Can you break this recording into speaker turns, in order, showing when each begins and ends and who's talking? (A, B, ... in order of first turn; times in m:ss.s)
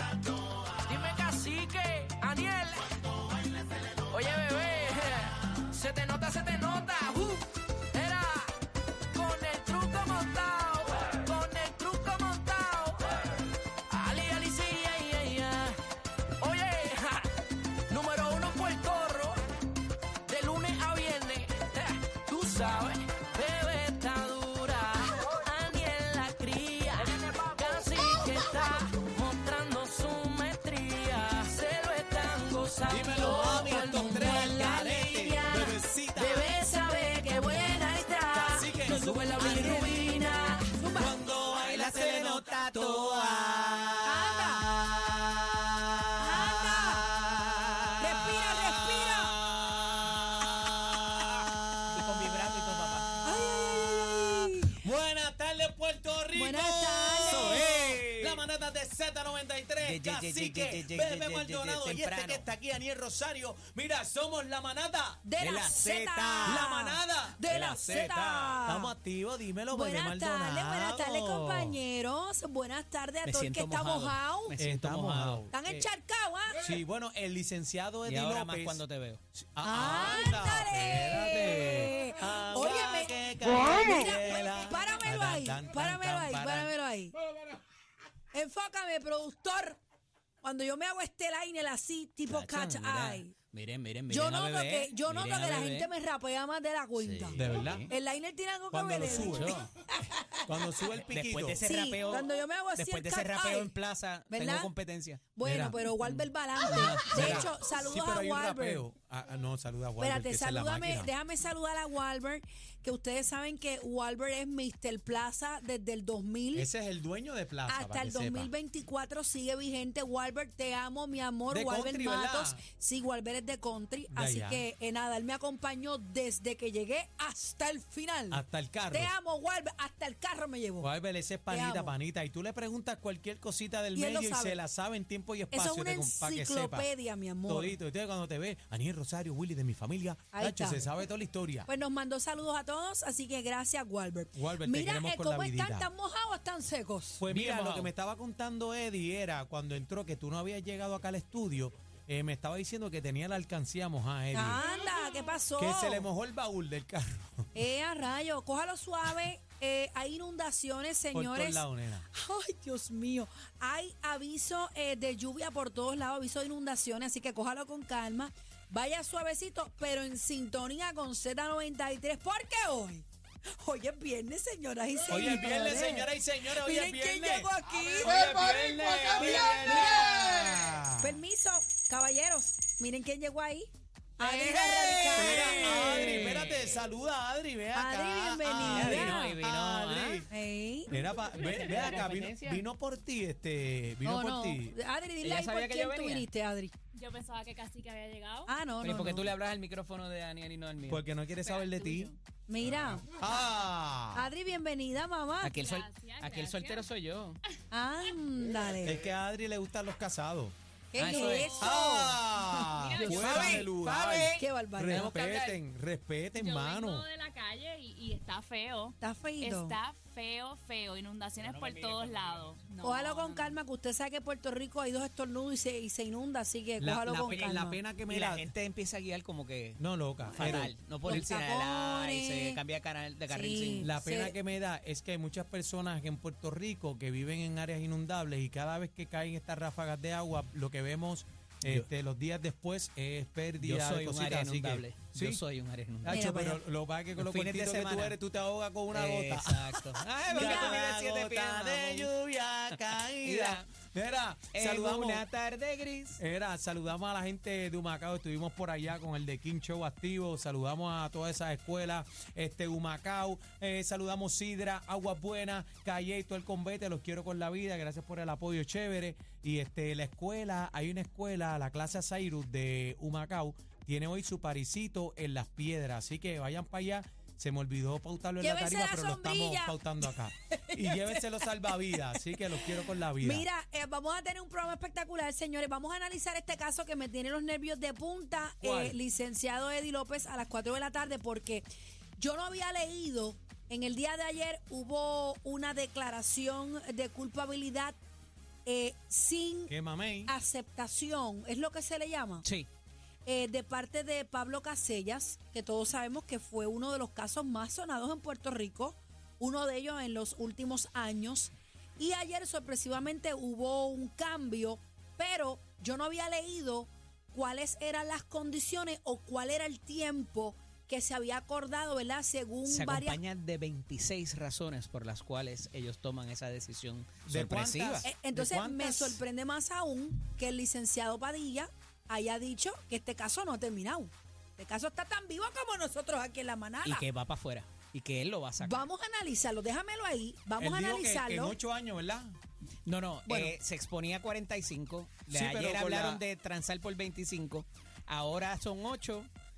0:00.9-0:02.8 A
0:04.1-0:08.5 A
0:09.1-0:13.0 A
0:13.1-0:13.4 B
0:13.9-0:15.8 A
0:16.4-0:17.3 A
0:17.9-0:19.4 A
0:20.3-0:27.0 A
0:27.6-0:33.5 A
0:32.9-0:36.6 C
0:33.5-0:41.2 D
0:38.3-0:39.8 C
0:39.5-0:39.8 B
0:41.0-0:52.0 C
0:41.5-0:44.1 B
0:44.0-0:44.7 D
0:46.2-0:47.1 D
0:48.0-0:49.4 D
0:51.9-0:53.1 B
0:53.2-0:54.8 D
0:54.8-1:05.2 C
0:56.3-0:57.7 D
0:57.3-0:58.4 B
0:59.8-1:02.5 B
1:05.2-1:09.0 D
1:05.4-1:06.7 B
1:06.4-1:11.8 C
1:07.5-1:08.1 B
1:09.7-1:14.6 D
1:13.2-1:15.5 B
1:14.6-1:15.8 C
1:15.5-1:16.8 D
1:16.6-1:18.8 C
1:18.0-1:19.2 B
1:19.4-1:26.7 C
1:19.6-1:27.2 D
1:28.3-1:29.8 D
1:30.4-1:33.3 D
1:32.3-1:35.9 B
1:34.1-1:41.0 D
1:37.0-1:37.9 B
1:37.4-1:37.9 C
1:38.7-1:39.6 C
1:39.2-1:39.7 B
1:40.5-1:41.7 C
1:41.0-1:45.2 B
1:41.6-1:43.7 D
1:44.3-1:44.7 D
1:45.4-1:48.9 D
1:45.4-1:45.8 C
1:46.6-1:47.5 B
1:47.0-1:51.1 C
1:50.0-1:56.7 D
1:56.6-1:58.5 C
1:57.7-2:10.9 D
2:01.5-2:02.6 C
2:04.1-2:04.7 C
2:08.3-2:09.1 C
2:10.8-2:16.9 C
2:11.5-2:12.0 D
2:13.9-2:14.6 D
2:15.5-2:17.8 D
2:17.5-2:21.7 C
2:20.3-2:20.9 D
2:21.7-2:27.3 D
2:24.4-2:25.9 C
2:27.2-2:34.8 C
2:27.4-2:27.9 B
2:34.3-2:36.1 D
2:35.6-2:37.5 C
2:37.6-2:53.1 D
2:41.1-2:42.1 C
2:53.6-3:00.5 D
2:55.1-2:57.5 C
2:58.0-3:01.2 C
3:01.0-3:06.3 D
3:04.2-3:10.3 C
3:04.7-3:06.8 B
3:07.7-3:09.4 D
3:08.6-3:10.2 B
3:10.3-3:10.9 D
3:10.9-3:14.8 C
3:11.3-3:12.6 B
3:14.0-3:16.7 D
3:15.2-3:16.3 B
3:16.9-3:18.5 E
3:18.5-3:19.3 D
3:18.8-3:21.1 B
3:20.9-3:22.1 C
3:21.4-3:22.2 E
3:22.5-3:23.2 D
3:23.1-3:24.3 C
3:24.1-3:25.6 D
3:25.4-3:27.4 B
3:25.5-3:26.9 E
3:27.7-3:29.0 D
3:28.8-3:30.6 C
3:30.9-3:33.7 D
3:31.0-3:31.6 B
3:31.2-3:31.5 E
3:31.6-3:37.1 C
3:32.7-3:33.7 E
3:33.1-3:35.6 B
3:34.3-3:35.2 D
3:36.3-3:43.6 E
3:39.0-3:39.8 D
3:41.4-3:42.6 B
3:42.8-3:47.8 D
3:46.8-3:48.5 C
3:48.1-3:53.9 B
3:49.8-3:50.7 C
3:50.4-3:52.6 D
3:53.3-3:54.4 D
3:53.8-4:05.4 C
4:03.6-4:06.3 B
4:06.0-4:15.2 C
4:06.1-4:06.6 D
4:07.2-4:08.2 B
4:08.9-4:12.1 B
4:10.3-4:10.8 D
4:12.7-4:13.7 B
4:14.5-4:16.2 B
4:16.2-4:43.5 C
4:38.4-4:51.6 D
4:48.6-4:49.0 C
4:52.2-4:58.0 D
4:58.7-4:59.7 D
4:59.7-5:00.3 C
5:00.3-5:02.4 D
5:03.3-5:23.2 D
5:22.6-5:28.1 B
5:27.3-5:29.2 C
5:28.0-5:37.0 D
5:36.8-5:38.9 B
5:38.6-5:41.6 D
5:40.6-5:42.4 C
5:42.9-5:49.3 B
5:43.3-5:43.5 D
5:45.3-5:46.2 C